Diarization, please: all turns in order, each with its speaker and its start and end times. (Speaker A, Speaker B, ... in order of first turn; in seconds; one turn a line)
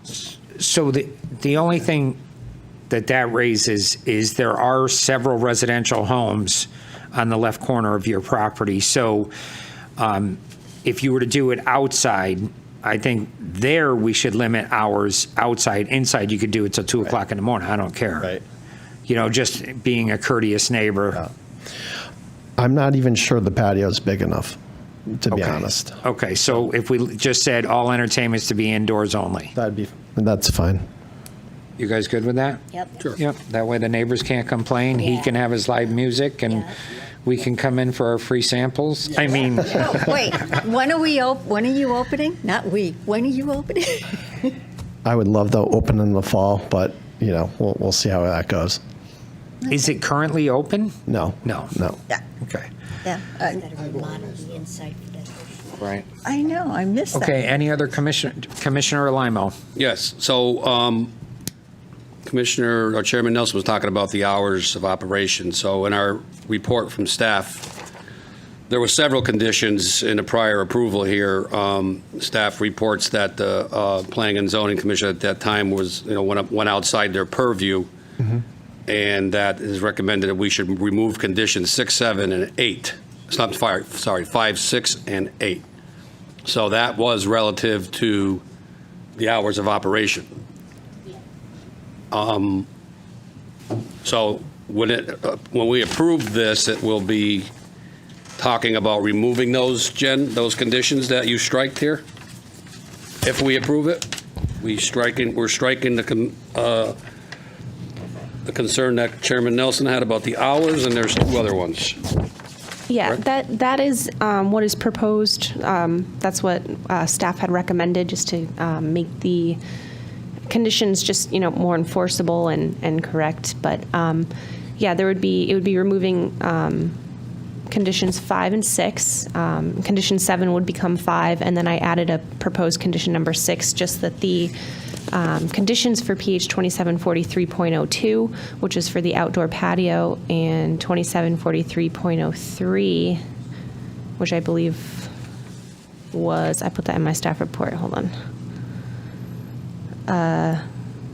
Speaker A: 0.5-2.2
Speaker A: 2.9-9.3
Speaker A: 10.0-18.4
Speaker A: 19.1-21.2
Speaker B: 22.6-24.6
Speaker B: 25.2-26.0
Speaker A: 25.3-29.5
Speaker B: 29.5-30.8
Speaker A: 31.8-36.7
Speaker C: 32.7-33.0
Speaker A: 37.2-40.1
Speaker D: 39.7-44.5
Speaker B: 45.0-48.8
Speaker A: 49.7-51.7
Speaker B: 51.1-52.0
Speaker A: 52.4-52.7
Speaker D: 53.0-53.6
Speaker C: 53.2-55.6
Speaker A: 55.8-56.0
Speaker D: 56.2-57.4
Speaker A: 57.1-59.5
Speaker E: 59.8-61.1
Speaker E: 62.2-67.7
Speaker E: 68.7-77.9
Speaker E: 78.9-85.6
Speaker E: 86.4-88.4
Speaker E: 89.2-90.3
Speaker E: 92.1-92.7
Speaker E: 94.0-97.5
Speaker E: 98.4-102.0
Speaker E: 103.2-107.0
Speaker E: 108.5-112.0
Speaker F: 112.9-119.6
Speaker F: 120.5-127.0
Speaker F: 127.7-134.5
Speaker F: 135.1-143.2
Speaker F: 144.2-145.1
Speaker F: 146.1-148.1
Speaker F: 150.1-150.6